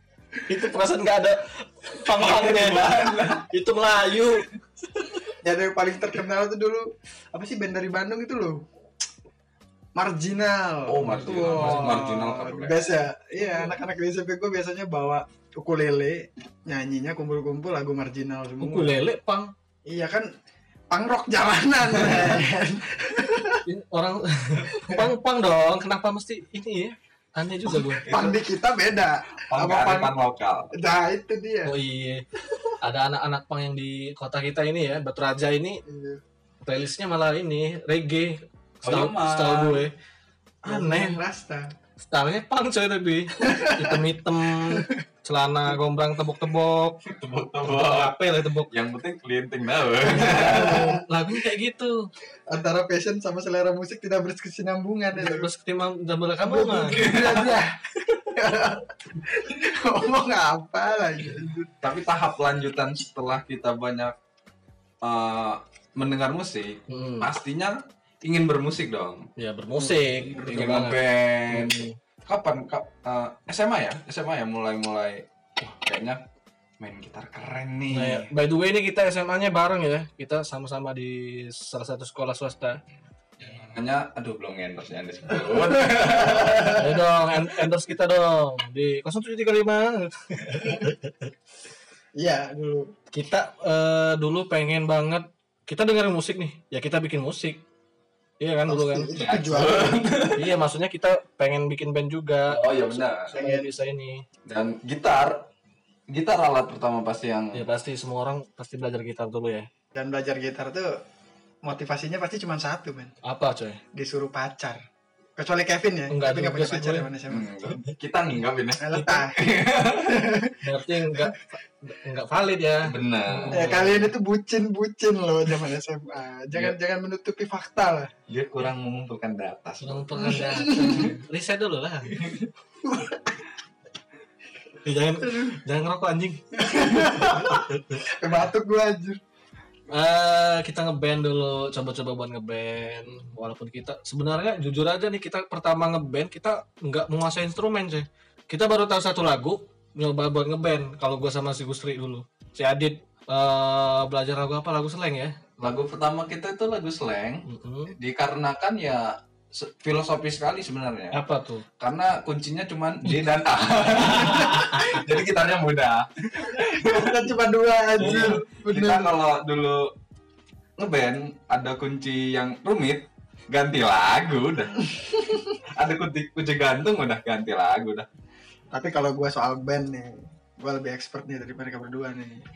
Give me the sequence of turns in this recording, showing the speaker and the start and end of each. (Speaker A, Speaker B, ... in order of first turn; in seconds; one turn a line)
Speaker A: 0.5-5.3
Speaker B: 2.1-3.5
Speaker C: 5.4-8.6
Speaker C: 9.9-19.0
Speaker B: 10.9-12.9
Speaker A: 11.1-12.0
Speaker A: 13.4-13.8
Speaker A: 18.6-19.5
Speaker C: 19.9-20.3
Speaker C: 20.9-23.6
Speaker A: 23.7-28.0
Speaker C: 27.9-30.1
Speaker B: 28.0-28.4
Speaker B: 29.5-30.7
Speaker C: 30.7-31.7
Speaker A: 31.7-32.2
Speaker A: 32.8-35.8
Speaker C: 35.9-36.2
Speaker A: 36.7-39.9
Speaker B: 38.8-39.9
Speaker C: 40.6-41.6
Speaker A: 40.7-41.2
Speaker A: 42.0-47.0
Speaker C: 43.4-44.0
Speaker B: 47.0-50.8
Speaker A: 47.6-48.7
Speaker A: 50.1-52.1
Speaker C: 50.1-51.0
Speaker C: 52.5-55.5
Speaker A: 55.1-57.1
Speaker C: 56.4-61.7
Speaker B: 56.9-57.6
Speaker B: 61.8-64.1
Speaker B: 65.0-69.3
Speaker A: 66.9-67.3
Speaker A: 69.4-72.0
Speaker C: 69.8-70.7
Speaker B: 70.4-76.2
Speaker B: 76.8-78.3
Speaker A: 77.9-82.8
Speaker B: 83.4-87.0
Speaker C: 86.4-86.9
Speaker A: 86.8-91.3
Speaker C: 92.2-92.9
Speaker A: 93.1-97.6
Speaker A: 98.4-99.1
Speaker C: 98.7-100.1
Speaker B: 99.2-100.5
Speaker A: 100.4-102.6
Speaker B: 102.5-103.3
Speaker C: 103.3-103.7
Speaker A: 103.3-104.2
Speaker B: 104.5-105.5
Speaker B: 106.1-107.7
Speaker A: 107.5-109.7
Speaker C: 109.9-110.9
Speaker C: 111.6-113.1
Speaker A: 113.2-113.8
Speaker C: 114.0-114.8
Speaker C: 115.4-117.5
Speaker A: 116.1-117.1
Speaker B: 117.3-120.2
Speaker C: 118.8-119.4
Speaker C: 120.0-120.6
Speaker A: 120.6-124.1
Speaker B: 122.9-123.8
Speaker C: 123.5-128.1
Speaker B: 128.3-131.1
Speaker A: 129.8-132.2
Speaker C: 130.2-131.1
Speaker B: 132.1-132.5
Speaker C: 132.8-133.2
Speaker A: 134.8-136.4
Speaker C: 135.2-135.6
Speaker C: 136.6-137.6
Speaker A: 136.9-138.0
Speaker C: 138.2-139.2
Speaker A: 139.9-155.5
Speaker B: 155.6-161.2
Speaker A: 157.4-158.0
Speaker A: 161.1-161.7
Speaker B: 161.8-167.2
Speaker A: 164.0-164.8
Speaker C: 166.7-169.1
Speaker B: 168.0-169.9
Speaker A: 168.0-168.4
Speaker B: 170.8-178.1
Speaker C: 178.7-182.4